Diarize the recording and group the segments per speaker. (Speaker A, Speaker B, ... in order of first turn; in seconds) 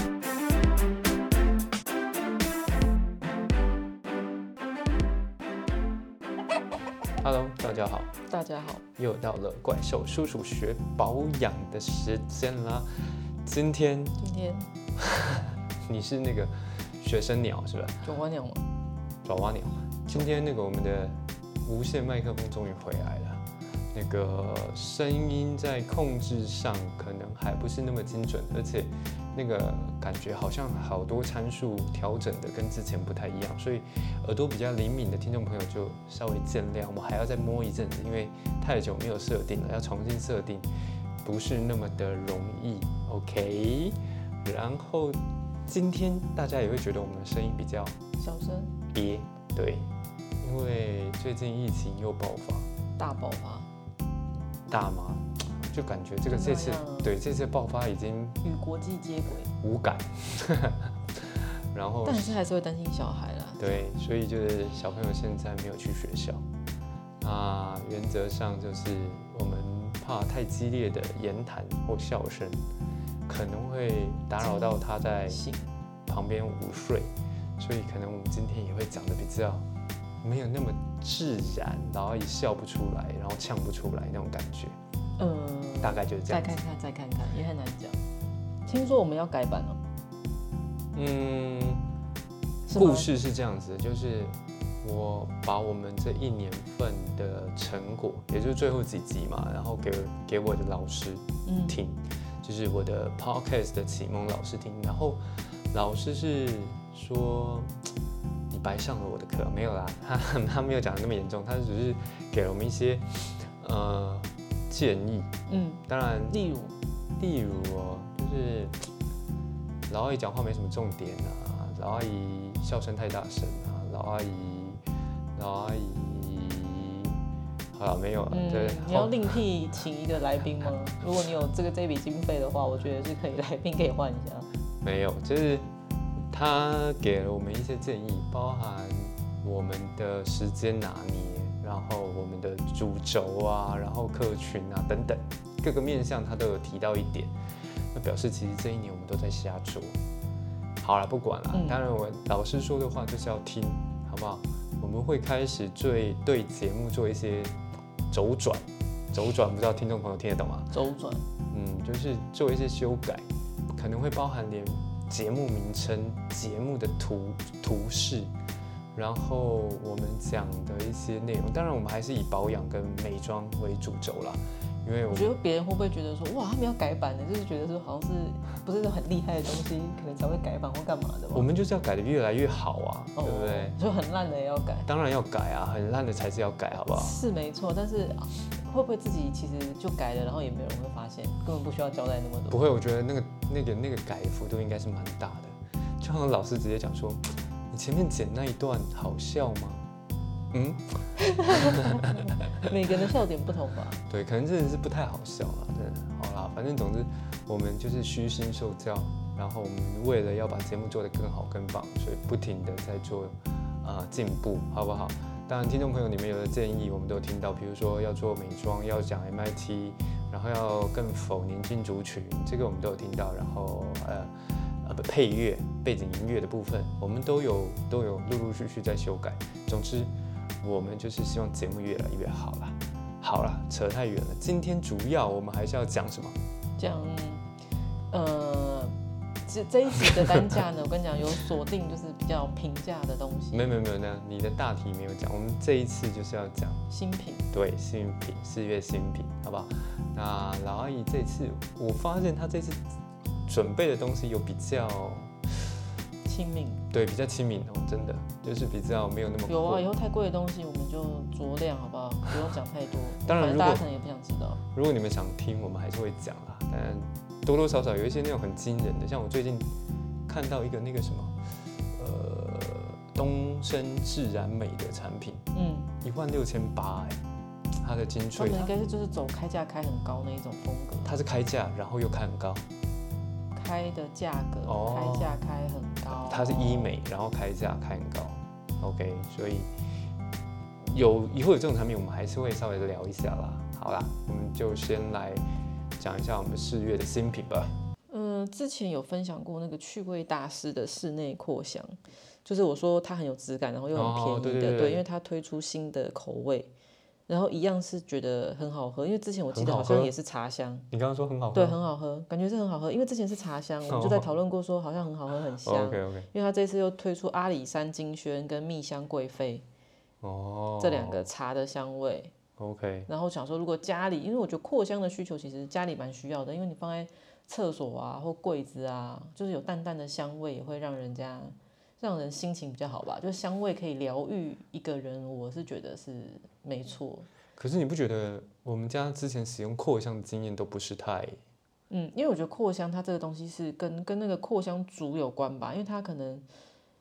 Speaker A: 7.2-8.1, 9.0-14.2, 15.0-18.0, 19.2-40.7, 41.2-48.0, 48.9-49.9, 50.4-52.7, 54.7-58.4, 59.6-62.4, 63.6-66.4, 67.2-72.7, 73.3-75.4, 76.1-79.7, 80.2-84.8, 85.8-86.5, 90.9-91.9, 92.7-107.7, 108.5-115.3, 115.9-116.4, 117.2-118.9, 119.9-124.8, 125.3-127.2, 127.7-129.4, 134.8-135.7, 136.3-150.0, 150.8-157.6, 158.1-160.7, 161.5-168.3, 168.9-175.3, 181.3-183.7, 184.8-187.2, 192.5-199.9, 200.5-202.3, 204.1-236.4, 240.0-240.5, 243.5-246.8, 247.5-252.8, 253.5-255.6, 256.9-259.9, 263.2-263.9, 264.7-269.7, 270.3-275.4, 276.0-277.2, 277.8-278.7, 281.0-282.7, 284.6-285.4, 286.1-289.7, 290.8-295.4, 296.0-297.7, 303.9-305.0, 309.5-310.1, 310.9-311.8, 313.9-314.2, 315.6-316.3, 320.2-321.3, 322.6-323.1, 337.6-341.4
Speaker B: 8.3-8.8, 14.2-14.7, 18.0-18.6, 48.2-48.8, 53.0-53.7, 56.3-57.1, 58.4-59.5, 62.0-63.8, 74.4-75.7, 85.2-88.0, 88.7-89.8, 92.7-93.1, 101.4-101.8, 115.5-116.8, 128.3-134.5, 151.5-151.8, 160.7-161.2, 175.1-181.5, 183.2-184.9, 186.9-192.6, 201.2-204.0, 236.8-237.5, 238.1-243.7, 246.9-247.5, 256.2-256.8, 259.5-264.6, 275.5-275.9, 278.4-281.2, 283.5-286.9, 298.1-306.7, 307.3-310.9, 311.5-319.6, 320.8-322.3, 323.1-337.3, 341.9-346.4